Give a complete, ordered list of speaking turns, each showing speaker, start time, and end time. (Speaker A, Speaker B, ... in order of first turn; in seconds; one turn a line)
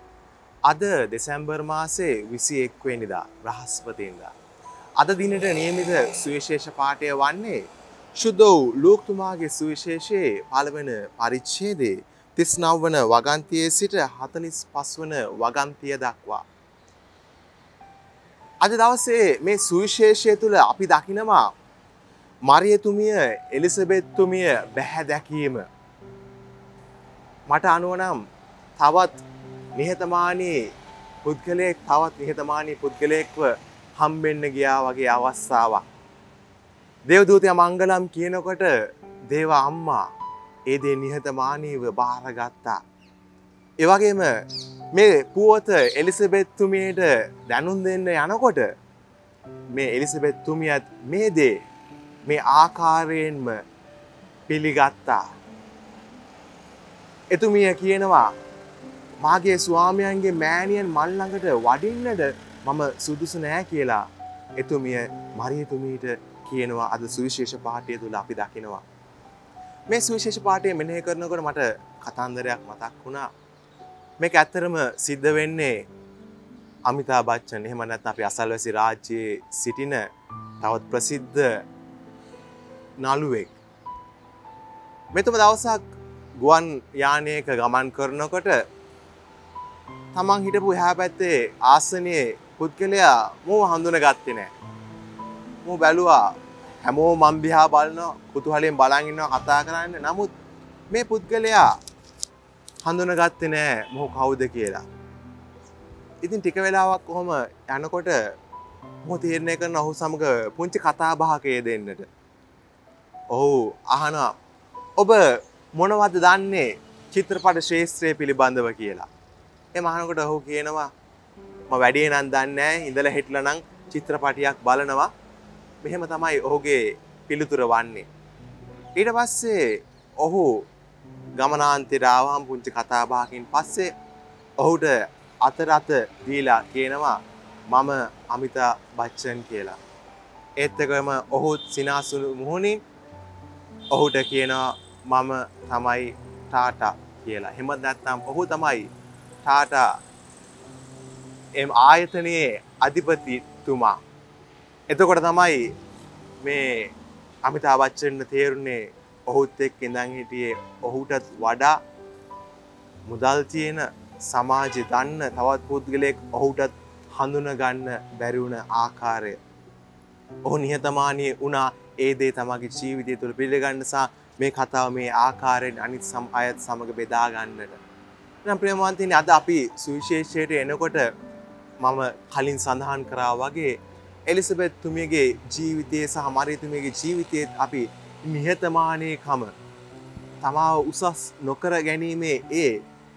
Speaker A: 0.7-4.3
Speaker A: 5.0-16.4
Speaker A: 18.6-21.5
Speaker A: 22.5-25.7
Speaker A: 27.5-28.2
Speaker A: 28.8-29.2
Speaker A: 29.8-30.7
Speaker A: 31.2-35.9
Speaker A: 37.1-40.1
Speaker A: 40.7-42.8
Speaker A: 43.8-48.7
Speaker A: 49.7-51.6
Speaker A: 52.2-53.6
Speaker A: 54.5-55.2
Speaker A: 57.3-58.3
Speaker A: 59.2-64.1
Speaker A: 64.6-68.8
Speaker A: 69.9-73.3
Speaker A: 74.2-75.9
Speaker A: 76.9-80.1
Speaker A: 80.6-81.6
Speaker A: 83.0-83.6
Speaker A: 85.1-85.8
Speaker A: 86.4-88.6
Speaker A: 90.1-94.5
Speaker A: 95.6-100.3
Speaker A: 100.9-101.8
Speaker A: 102.8-104.8
Speaker A: 106.2-108.3
Speaker A: 109.0-112.1
Speaker A: 113.3-114.4
Speaker A: 115.0-119.1
Speaker A: 119.7-120.9
Speaker A: 121.7-125.1
Speaker A: 125.8-128.1
Speaker A: 129.0-130.7
Speaker A: 131.4-133.9
Speaker A: 134.6-139.8
Speaker A: 140.6-142.8
Speaker A: 143.9-148.9
Speaker A: 149.4-149.9
Speaker A: 151.6-154.0
Speaker A: 154.9-155.7
Speaker A: 156.4-161.8
Speaker A: 163.1-169.4
Speaker A: 170.4-177.8
Speaker A: 178.4-181.1
Speaker A: 181.8-189.5
Speaker A: 190.4-192.8